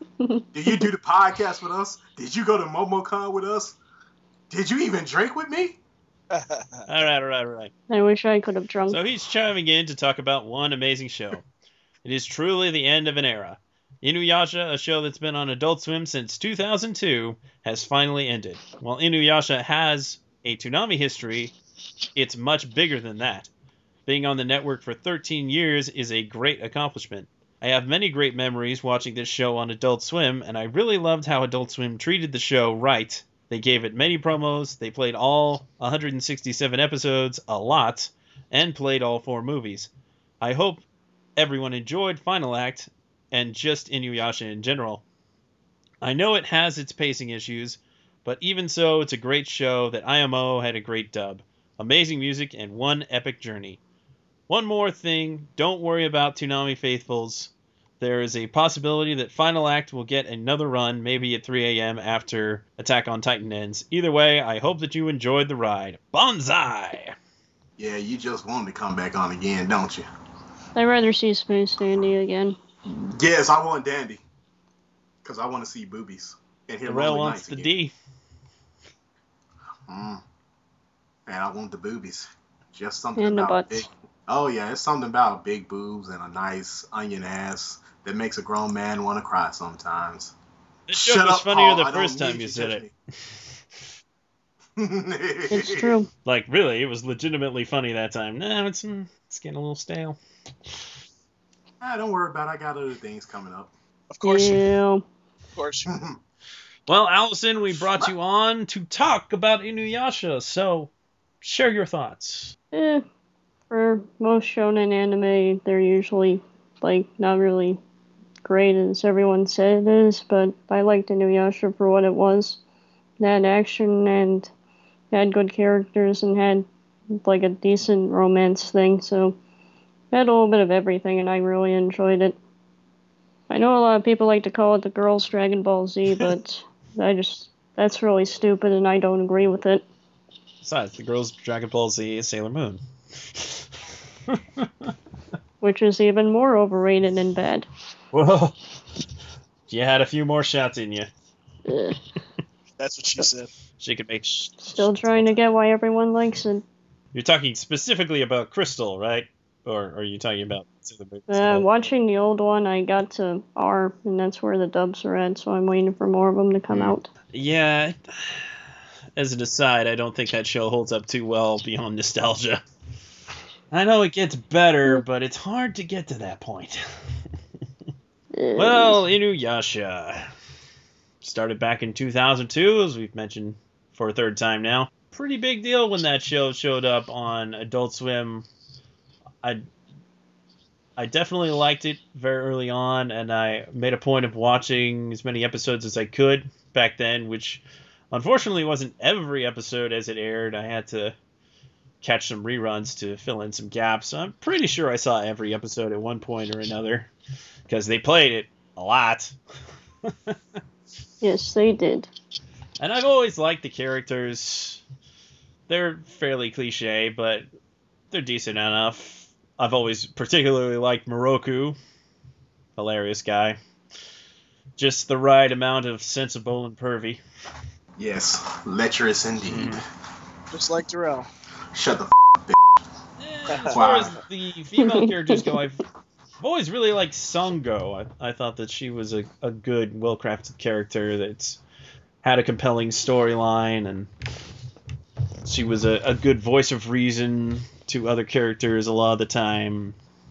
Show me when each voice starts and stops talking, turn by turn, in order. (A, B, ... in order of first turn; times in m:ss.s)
0:00.5-0:03.8 A
0:04.5-0:05.8 A
0:06.3-0:06.9 B
0:06.9-0:07.7 C
0:07.9-0:09.0 D
0:08.9-0:11.4 C
0:12.0-0:21.5 C
0:22.1-0:23.5 C
0:24.0-0:39.9 C
0:40.4-0:40.8 C
0:41.4-0:45.0 C
0:46.0-0:53.8 C
0:54.5-1:07.1 C
1:07.8-1:10.1 A
1:10.8-1:12.6 D
1:12.9-1:14.2 A
1:15.2-1:17.7 A
1:16.9-1:17.9 C
1:19.9-1:20.2 A
1:21.3-1:30.3 A
1:23.2-1:23.9 D
1:30.9-1:32.8 C
1:30.9-1:32.9 A
1:34.8-1:35.9 A
1:35.5-1:36.1 D
1:36.2-1:40.2 C
1:41.8-1:43.7 A
1:44.1-1:44.7 B
1:44.2-1:45.0 D
1:45.6-1:46.0 B
1:45.9-1:46.2 A
1:46.9-1:50.9 C
1:47.6-1:48.1 A
1:51.4-1:52.6 C
1:52.7-1:53.0 D
1:53.7-1:57.8 D
1:58.4-2:02.6 D
2:03.2-2:04.5 D
2:05.1-2:06.6 D
2:07.2-2:09.4 D
2:10.1-2:12.4 D
2:13.5-2:19.8 D
2:20.6-2:22.8 C
2:23.4-2:23.6 C
2:24.3-2:24.9 C
2:25.6-2:27.7 D
2:28.1-2:28.6 C
2:29.7-2:31.1 C
2:31.7-2:32.0 D
2:32.8-2:33.5 B
2:33.8-2:35.4 C
2:34.6-2:36.6 D
2:37.1-2:41.6 C
2:41.3-2:47.1 D
2:46.7-2:48.4 C
2:49.2-2:52.6 C
2:53.7-2:56.8 C
2:58.3-2:59.0 D
2:58.6-3:00.3 C
3:01.2-3:08.4 C
3:11.0-3:21.1 C
3:22.0-3:27.1 C
3:27.7-3:29.3 C
3:30.0-3:30.6 C
3:31.2-3:32.1 D
3:32.8-3:34.8 C
3:35.7-3:37.5 C
3:38.1-3:41.8 C
3:42.8-3:43.6 C
3:44.8-3:47.2 C
3:48.0-3:49.8 A
3:49.5-3:49.8 C
3:50.5-3:51.3 B
3:51.7-3:52.6 A
3:53.2-3:55.8 C
3:53.5-3:54.0 B
3:53.7-3:54.2 A
3:54.8-3:55.5 D
3:56.4-4:01.6 C
4:02.2-4:04.1 C
4:05.4-4:09.9 C